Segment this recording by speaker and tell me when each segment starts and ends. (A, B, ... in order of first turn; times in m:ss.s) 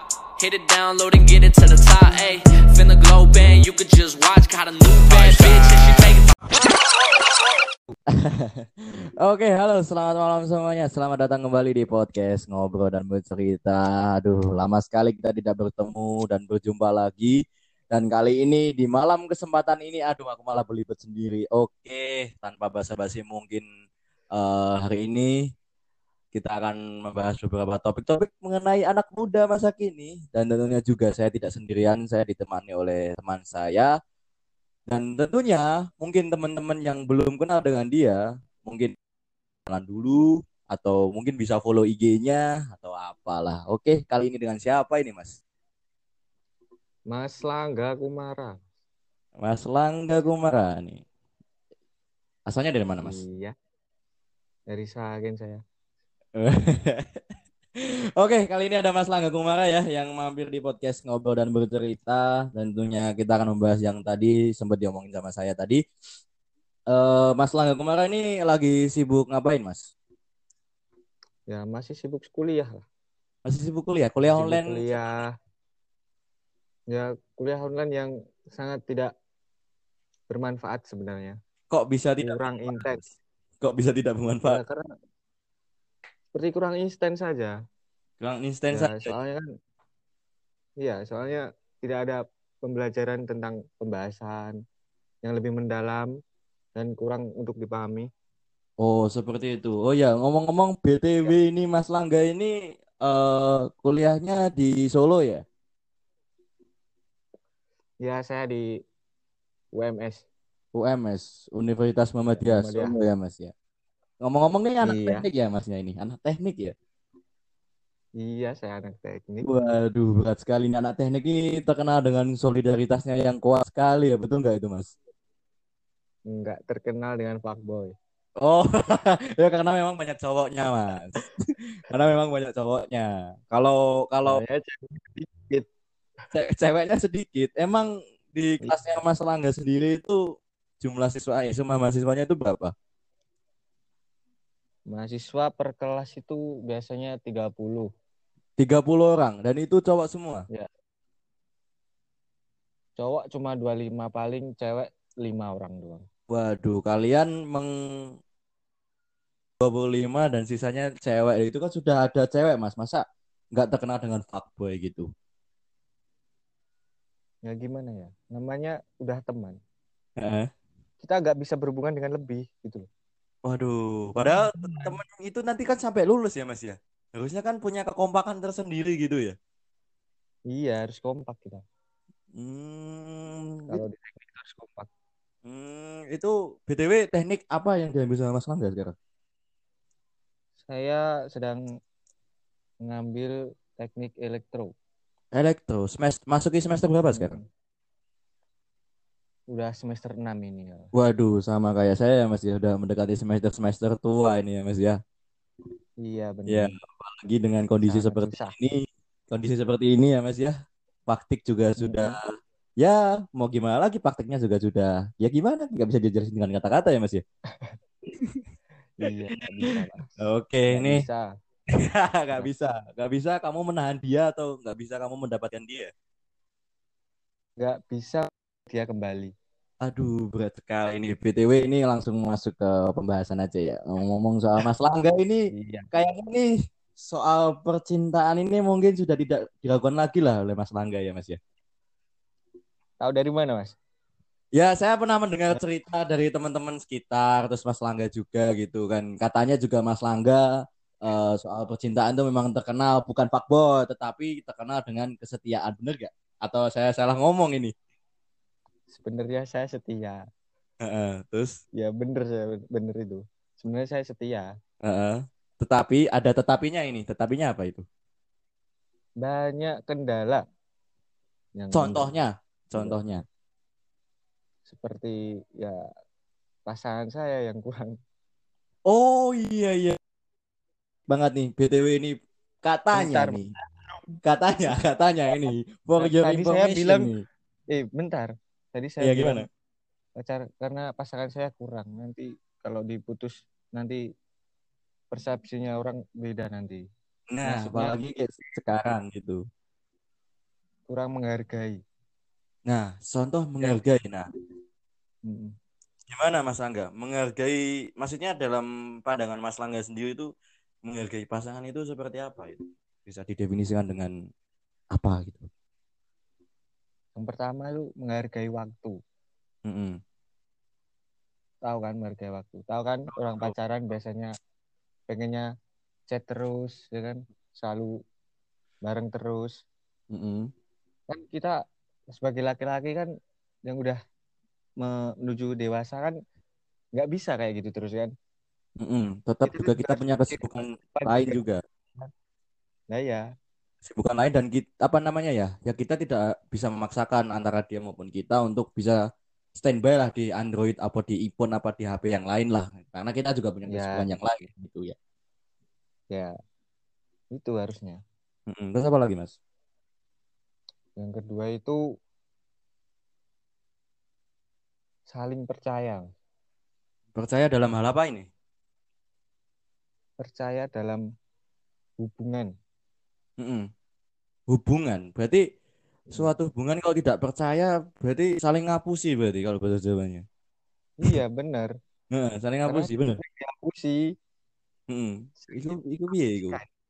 0:00.4-0:06.4 A
0:08.1-0:17.4 B
0:17.9-0:23.6 B
0:24.3-0:25.5 B
0:26.3-0:33.9 B
0:34.9-0:38.9 B
0:39.7-0:45.4 B
0:47.1-0:48.6 C
0:49.4-0:51.0 B
0:52.5-0:53.2 B
0:53.0-0:53.5 C
0:54.7-0:55.6 C
0:56.4-0:57.2 B
0:57.8-1:05.8 B
1:06.9-1:09.9 B
1:11.5-1:12.8 C
1:13.5-1:15.1 B
1:14.2-1:15.3 C
1:16.9-1:19.1 C
1:20.3-1:21.4 C
1:21.7-1:23.0 B
1:22.2-1:23.0 C
1:23.6-1:24.6 B
1:24.4-1:24.8 C
1:26.3-1:27.5 C
1:28.2-1:29.1 B
1:28.7-1:29.4 C
1:30.8-1:34.6 C
1:35.2-1:36.1 C
1:36.8-1:38.1 C
1:38.8-1:45.4 B
1:48.0-1:48.7 C
1:49.7-1:50.2 C
1:50.7-1:53.5 B
1:52.3-1:53.0 C
1:54.2-1:56.8 B
1:54.8-1:55.2 C
1:58.2-1:59.5 C
1:59.4-2:04.9 B
2:06.3-2:07.9 C
2:08.4-2:14.4 B
2:14.2-2:15.7 C
2:16.3-2:20.2 B
2:18.6-2:18.9 C
2:20.8-2:22.7 B
2:24.9-2:27.9 C
2:28.6-2:30.4 B
2:33.0-2:36.0 C
2:36.3-2:37.7 B
2:39.6-2:43.0 B
2:43.6-2:45.1 B
2:47.4-2:49.6 C
2:50.2-2:50.5 B
2:51.0-2:52.8 C
2:53.5-2:59.4 B
2:54.2-2:55.0 C
3:00.5-3:01.6 C
3:02.4-3:03.8 B
3:03.7-3:04.9 C
3:05.4-3:08.9 B
3:10.6-3:11.6 C
3:12.8-3:14.7 C
3:15.3-3:17.4 B
3:17.1-3:17.4 C
3:19.5-3:20.9 C
3:20.9-3:25.0 B
3:26.0-3:26.8 C
3:26.5-3:30.6 B
3:27.8-3:28.6 C
3:31.1-3:32.3 B
3:31.8-3:32.2 C
3:32.8-3:37.2 B
3:39.0-3:41.2 C
3:40.2-3:41.0 B
3:41.8-3:45.9 B
3:47.6-3:49.3 C
3:49.8-3:55.4 B
3:55.5-3:55.9 C
3:55.9-4:01.4 B
4:03.0-4:03.8 C
4:04.6-4:10.4 B
4:11.0-4:17.7 B
4:18.9-4:20.2 C
4:20.8-4:21.6 B
4:21.8-4:24.5 C
4:24.8-4:27.9 B
4:29.2-4:30.4 C
4:31.6-4:32.1 C
4:31.7-4:33.2 B
4:32.8-4:33.0 C
4:34.7-4:35.8 C
4:36.7-4:37.9 C
4:38.9-4:40.0 B
4:41.1-4:43.5 B
4:42.9-4:44.1 C
4:44.2-4:47.2 B
4:46.0-4:47.1 C
4:47.7-4:49.5 C
4:49.0-4:49.5 B
4:50.2-4:54.0 C
4:55.1-4:56.8 C
4:57.3-4:59.4 B
4:57.4-4:58.0 C
5:00.9-5:01.8 C
5:02.7-5:04.3 B
5:05.3-5:05.5 C
5:06.1-5:10.3 B
5:10.9-5:14.1 B
5:14.9-5:15.5 B
5:17.2-5:19.0 C
5:19.7-5:20.0 B
5:21.6-5:24.3 C
5:23.1-5:23.5 B
5:25.1-5:25.5 C
5:26.1-5:27.9 C
5:28.8-5:29.5 C
5:30.1-5:30.5 B
5:31.1-5:31.6 C
5:32.2-5:33.1 C
5:33.7-5:34.0 C
5:34.8-5:36.2 C
5:37.0-5:38.1 C
5:38.8-5:41.6 B
5:39.4-5:41.4 C
5:42.9-5:43.2 C
5:43.8-5:49.0 B
5:49.6-5:55.0 B
5:53.7-5:54.1 C
5:57.3-5:58.0 C
5:58.5-5:59.3 B
6:01.0-6:01.8 C
6:05.1-6:06.0 C
6:07.2-6:08.3 B
6:10.2-6:11.0 C
6:12.0-6:12.5 C
6:13.4-6:13.6 B
6:14.5-6:15.4 B
6:16.1-6:20.2 B
6:21.0-6:21.7 C
6:22.1-6:23.2 B
6:22.6-6:24.0 C
6:24.9-6:26.6 B
6:25.4-6:26.7 C